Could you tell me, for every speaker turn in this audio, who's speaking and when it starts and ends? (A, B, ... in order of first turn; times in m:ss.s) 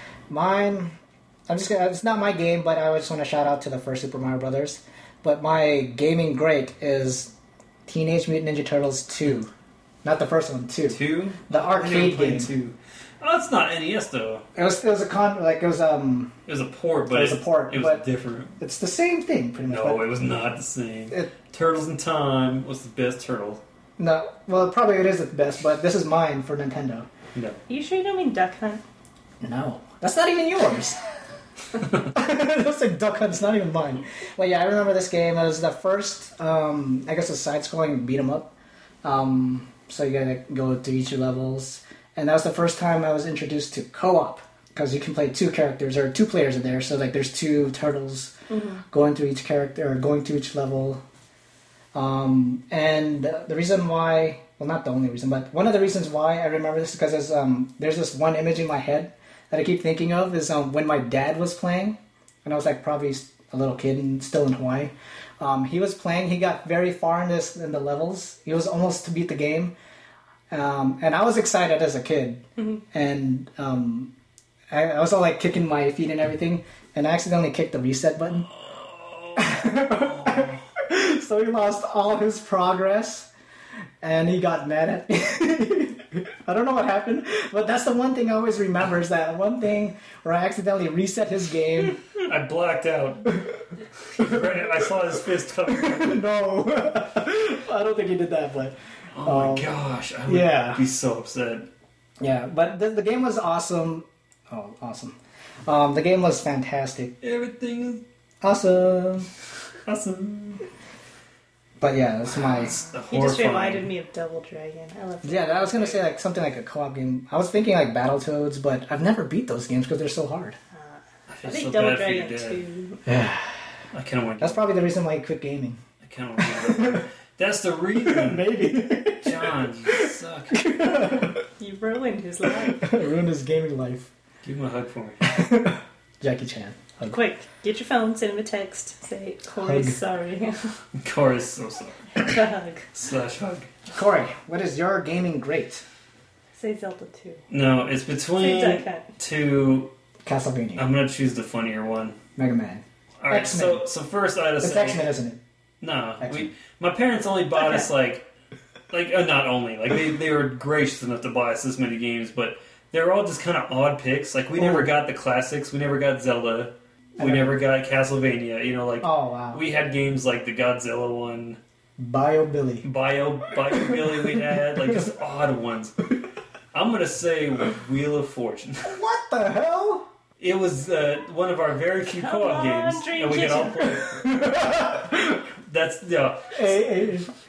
0:00.3-0:01.0 A
0:01.5-0:07.3 A
0:07.9-0:09.5 A
0:10.0-0:12.5 A
0:10.9-0:14.4 B
0:14.6-0:16.4 A
0:16.5-0:18.6 B
0:17.1-0:18.0 A
0:18.6-0:20.1 A
0:19.7-0:23.6 B
0:24.0-0:27.1 A
0:27.4-0:27.6 B
0:27.7-0:28.8 C
0:29.4-0:31.0 A
0:32.1-0:38.5 A
0:39.0-0:48.3 A
0:48.5-0:48.8 C
0:48.9-0:51.0 A
0:51.9-1:09.7 A
1:10.5-1:14.1 A
1:14.7-1:18.5 A
1:18.5-1:20.6 B
1:19.4-1:23.3 A
1:24.0-1:32.0 A
1:32.2-1:33.5 B
1:34.1-1:36.2 B
1:35.7-1:39.7 A
1:39.2-1:41.7 B
1:40.3-1:40.8 A
1:42.2-1:47.2 A
1:47.2-1:48.0 B
1:48.4-1:49.3 A
1:49.9-1:50.6 B
1:51.8-1:52.8 A
1:52.3-1:53.9 B
1:53.1-1:56.1 C
1:55.2-2:00.6 A
2:00.7-2:03.0 C
2:01.3-2:02.6 B
2:03.1-2:03.6 A
2:03.9-2:04.7 B
2:04.4-2:05.8 A
2:06.0-2:10.8 B
2:06.4-2:07.0 A
2:08.0-2:11.4 A
2:11.6-2:13.0 C
2:12.7-2:14.1 A
2:14.4-2:15.4 B
2:15.2-2:17.2 A
2:17.0-2:20.7 C
2:19.6-2:20.0 A
2:21.0-2:22.3 B
2:22.2-2:22.9 C
2:22.9-2:23.7 B
2:23.9-2:25.8 A
2:26.5-2:27.4 C
2:27.5-2:29.9 B
2:28.3-2:29.1 C
2:30.2-2:30.9 A
2:30.8-2:32.2 B
2:32.4-2:33.9 A
2:33.2-2:35.0 B
2:34.6-2:35.4 A
2:35.8-2:38.3 B
2:36.2-2:36.5 A
2:37.6-2:37.9 C
2:38.9-2:51.6 B
2:44.6-2:44.9 A
2:47.2-2:47.6 A
2:49.0-2:49.6 A
2:52.0-2:52.8 A
2:52.8-2:56.0 B
2:56.7-2:59.0 B
2:58.8-3:00.1 A
3:00.4-3:07.0 B
3:02.1-3:04.0 C
3:04.1-3:05.2 A
3:06.5-3:07.3 A